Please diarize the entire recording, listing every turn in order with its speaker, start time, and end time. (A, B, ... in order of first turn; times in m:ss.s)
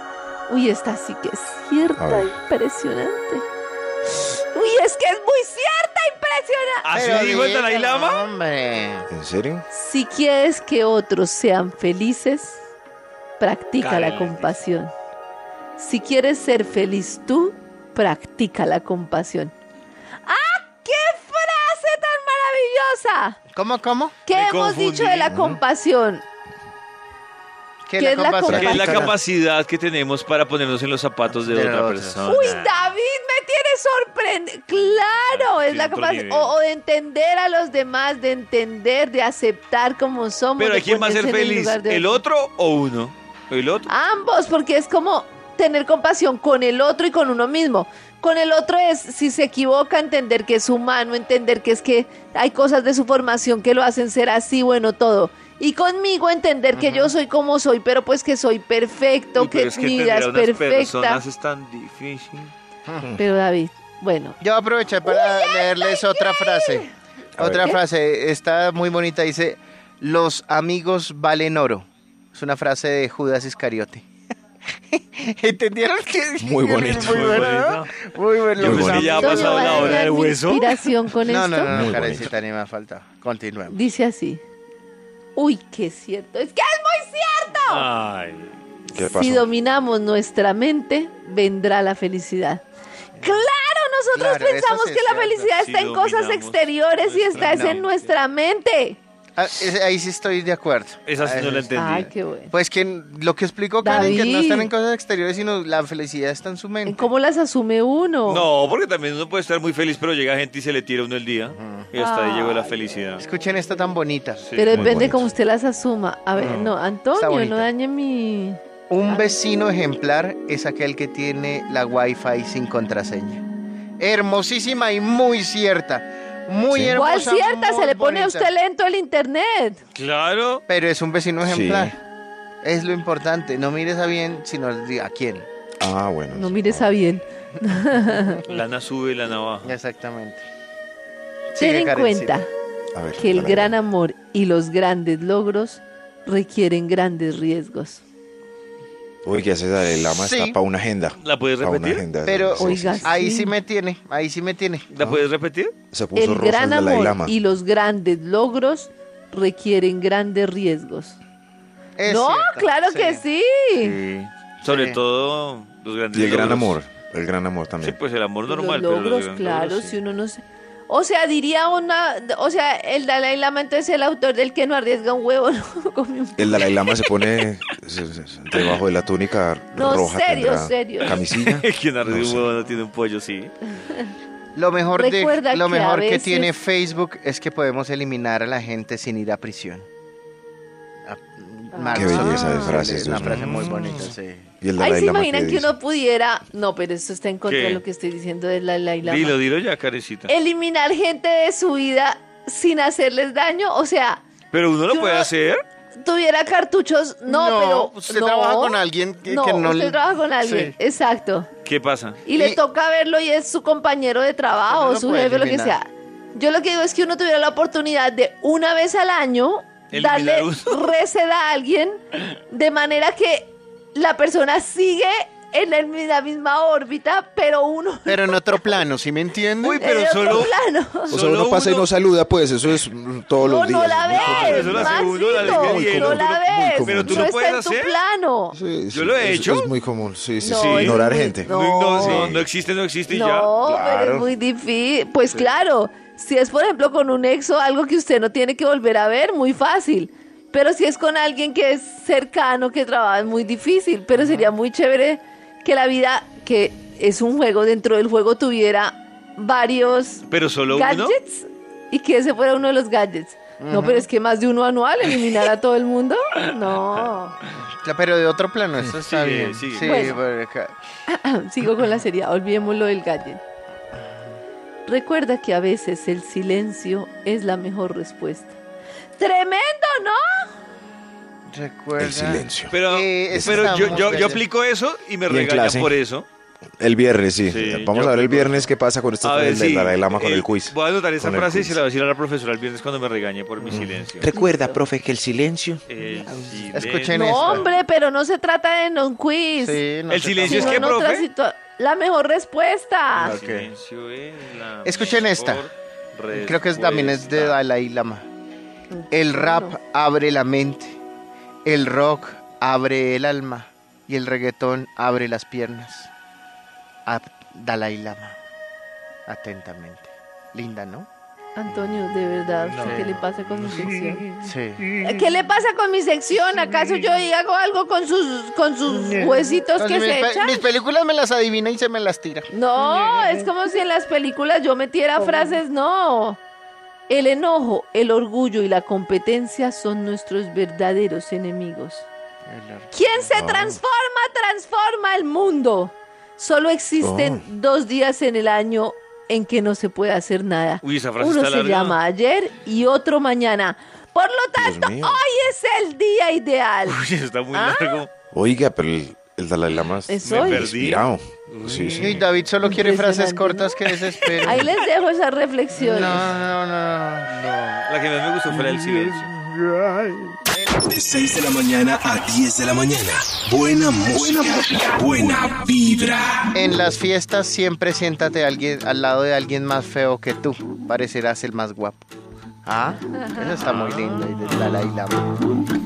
0:00.5-0:03.4 A
0:02.0-0:02.3 B
0:04.3-0:07.1 A
0:06.8-0:08.2 C
0:06.9-0:09.1 D
0:09.1-0:09.6 B
0:09.7-0:12.6 A
0:13.4-0:14.9 A
0:13.8-0:14.6 C
0:15.8-0:19.5 A
0:20.2-0:23.4 A
0:23.5-0:24.2 D
0:24.3-0:26.2 A
0:24.3-0:25.4 C
0:25.3-0:25.6 B
0:27.8-0:29.1 D
0:28.0-0:29.1 A
0:28.5-0:29.2 B
0:28.5-0:32.7 C
0:31.3-0:32.4 D
0:32.2-0:42.2 A
0:35.1-0:36.5 C
0:40.6-0:43.9 C
0:43.9-1:01.2 A
0:56.7-0:57.1 D
0:59.4-1:02.5 C
1:03.2-1:04.4 A
1:04.4-1:14.0 D
1:05.0-1:06.8 A
1:07.4-1:07.7 B
1:14.9-1:20.0 D
1:16.4-1:17.6 B
1:16.9-1:17.9 C
1:18.6-1:19.3 B
1:18.6-1:20.8 C
1:18.9-1:21.7 A
1:21.2-1:23.8 D
1:21.6-1:22.3 B
1:23.7-1:24.4 A
1:25.3-1:27.8 A
1:27.6-1:28.5 C
1:28.9-1:29.5 B
1:28.9-1:32.6 A
1:33.2-1:33.5 D
1:33.2-1:39.0 A
1:34.1-1:35.5 D
1:35.6-1:38.0 C
1:37.3-1:37.8 D
1:39.4-1:47.1 D
1:41.0-1:42.1 C
1:41.7-1:42.5 A
1:43.8-1:44.7 A
1:46.8-1:48.5 A
1:48.3-1:53.2 C
1:51.5-1:51.9 D
1:51.9-1:52.7 A
1:53.2-1:55.1 D
1:54.4-1:55.0 C
1:54.6-1:59.4 A
1:54.7-1:55.3 B
1:56.3-1:57.7 D
1:58.9-2:03.4 D
2:04.0-2:08.5 D
2:06.7-2:07.0 B
2:06.9-2:09.8 A
2:09.9-2:10.6 C
2:10.7-2:12.0 D
2:11.4-2:11.9 B
2:12.6-2:15.4 D
2:15.8-2:16.9 B
2:16.3-2:18.4 A
2:18.4-2:19.7 C
2:19.6-2:20.4 D
2:21.5-2:22.4 D
2:21.6-2:22.5 A
2:22.9-2:23.7 B
2:23.2-2:28.0 A
2:29.2-2:33.1 B
2:29.8-2:30.6 D
2:31.2-2:32.0 C
2:32.2-2:34.8 D
2:32.5-2:33.6 A
2:34.9-2:35.7 C
2:35.9-2:37.3 B
2:36.1-2:41.2 A
2:42.0-2:43.2 D
2:42.0-2:44.0 A
2:43.8-2:46.8 C
2:44.6-2:45.0 D
2:46.1-2:48.0 B
2:47.8-2:50.0 C
2:48.5-2:57.2 A
2:56.4-3:02.5 B
2:59.7-3:01.1 A
3:01.0-3:03.7 C
3:04.5-3:09.8 D
3:04.9-3:06.5 A
3:11.0-3:14.4 D
3:11.7-3:12.9 A
3:11.9-3:14.1 B
3:14.6-3:15.7 B
3:14.8-3:19.4 A
3:17.4-3:17.8 C
3:19.0-3:20.3 C
3:20.3-3:24.2 A
3:24.5-3:25.6 C
3:24.9-3:25.3 A
3:26.0-3:31.5 A
3:27.2-3:30.7 D
3:31.6-3:32.2 C
3:32.2-3:48.8 A
3:32.3-3:32.6 D
3:34.6-3:35.8 D
3:39.9-3:40.8 C
3:48.0-3:49.8 D
3:49.6-3:50.5 C
3:49.7-3:51.2 A
3:51.1-3:57.3 B
3:51.1-3:51.9 C
3:53.4-3:58.6 A
3:54.1-3:57.9 C
3:58.5-4:02.5 B
3:58.9-3:59.7 C
4:00.4-4:02.3 A
4:00.5-4:03.5 C
4:03.1-4:27.4 A
4:03.6-4:04.3 B
4:14.2-4:14.5 D
4:20.3-4:21.2 C
4:23.6-4:24.1 D
4:27.5-4:30.7 D
4:29.0-4:30.1 C
4:29.8-4:30.2 A
4:31.1-4:33.4 A
4:34.8-4:38.5 A
4:39.2-4:40.5 A
4:41.5-4:44.4 D
4:42.0-4:42.7 B
4:42.7-4:46.2 C
4:43.3-4:44.3 B
4:45.3-4:46.0 B
4:46.8-4:51.8 B
4:47.5-4:48.7 C
4:49.2-4:54.3 C
4:53.7-4:56.6 B
4:54.2-4:54.8 A
4:55.9-4:57.7 C
4:56.7-4:57.7 D
4:57.1-4:59.8 A
4:59.6-5:00.9 D
5:00.1-5:01.2 C
5:00.5-5:03.3 A
5:03.1-5:07.6 C
5:03.2-5:03.7 D
5:04.8-5:05.6 D
5:06.3-5:08.2 D
5:08.9-5:09.8 A
5:09.1-5:11.0 D
5:11.6-5:16.1 D
5:17.0-5:18.4 D
5:19.3-5:21.1 D
5:21.6-5:24.4 A
5:21.7-5:22.0 D
5:22.8-5:23.0 C
5:22.8-5:23.1 D
5:24.4-5:25.0 D
5:24.9-5:30.8 A
5:28.9-5:32.5 D
5:32.5-5:36.4 A
5:37.1-5:42.1 A
5:42.5-5:42.9 D
5:42.9-5:57.0 A
5:43.3-5:43.8 B
5:47.0-5:47.4 B
5:50.8-5:52.0 C
5:54.6-5:55.2 B
5:56.8-5:58.1 C
5:57.5-5:58.0 A
5:58.3-6:02.2 B
6:00.1-6:00.6 A
6:00.2-6:02.3 C
6:02.0-6:04.7 D
6:02.6-6:03.8 A
6:04.4-6:06.4 A
6:05.7-6:07.4 D
6:07.3-6:09.3 C
6:09.5-6:11.2 D
6:10.8-6:16.4 E
6:16.5-6:22.0 D
6:22.6-6:25.5 D
6:23.2-6:23.4 A
6:23.6-6:24.7 C